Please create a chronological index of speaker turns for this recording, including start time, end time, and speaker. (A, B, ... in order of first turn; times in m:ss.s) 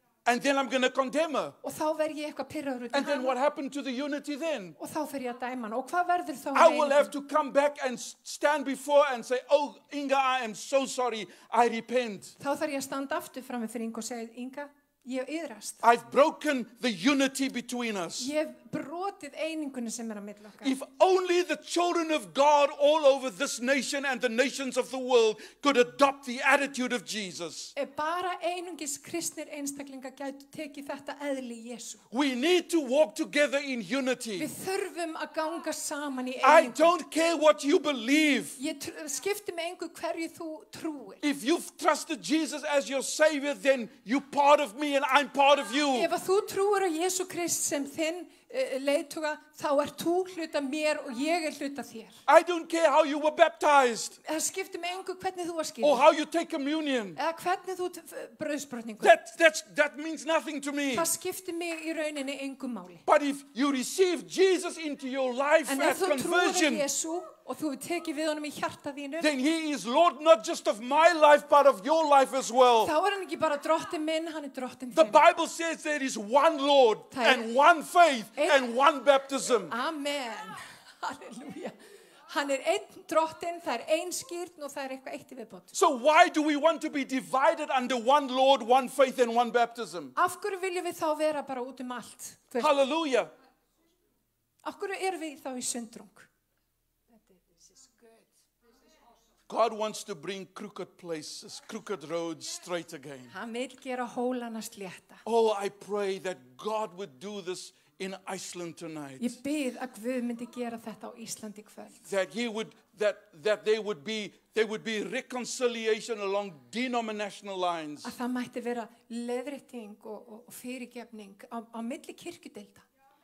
0:00.2-0:01.6 A
0:01.6-0:03.4 B
0:02.9-0:04.8 A
0:04.8-0:07.1 B
0:06.5-0:12.4 A
0:12.4-0:15.8 B
0:15.8-0:18.3 A
0:18.2-0:20.7 B
0:20.6-0:27.7 A
0:27.7-0:32.0 B
0:32.1-0:34.5 A
0:34.4-0:37.0 B
0:36.4-0:38.6 A
0:38.6-0:41.2 B
0:41.2-0:46.1 A
0:45.9-0:52.2 B
0:52.3-0:54.2 A
0:54.2-0:56.0 B
0:55.8-0:57.2 A
0:57.2-0:59.2 B
0:59.0-1:01.1 A
1:00.9-1:03.0 B
1:03.0-1:06.9 A
1:05.7-1:09.3 B
1:09.2-1:12.9 A
1:12.8-1:15.2 B
1:14.9-1:19.7 A
1:17.1-1:17.5 B
1:18.4-1:18.6 B
1:19.7-1:21.7 B
1:22.3-1:25.7 B
1:25.7-1:30.1 A
1:30.2-1:32.7 B
1:32.6-1:33.3 A
1:34.6-1:36.3 B
1:37.2-1:38.3 B
1:39.5-1:43.3 A
1:43.3-1:45.2 B
1:45.2-1:49.4 A
1:49.2-1:52.0 B
1:52.0-1:58.1 A
1:58.0-2:02.8 B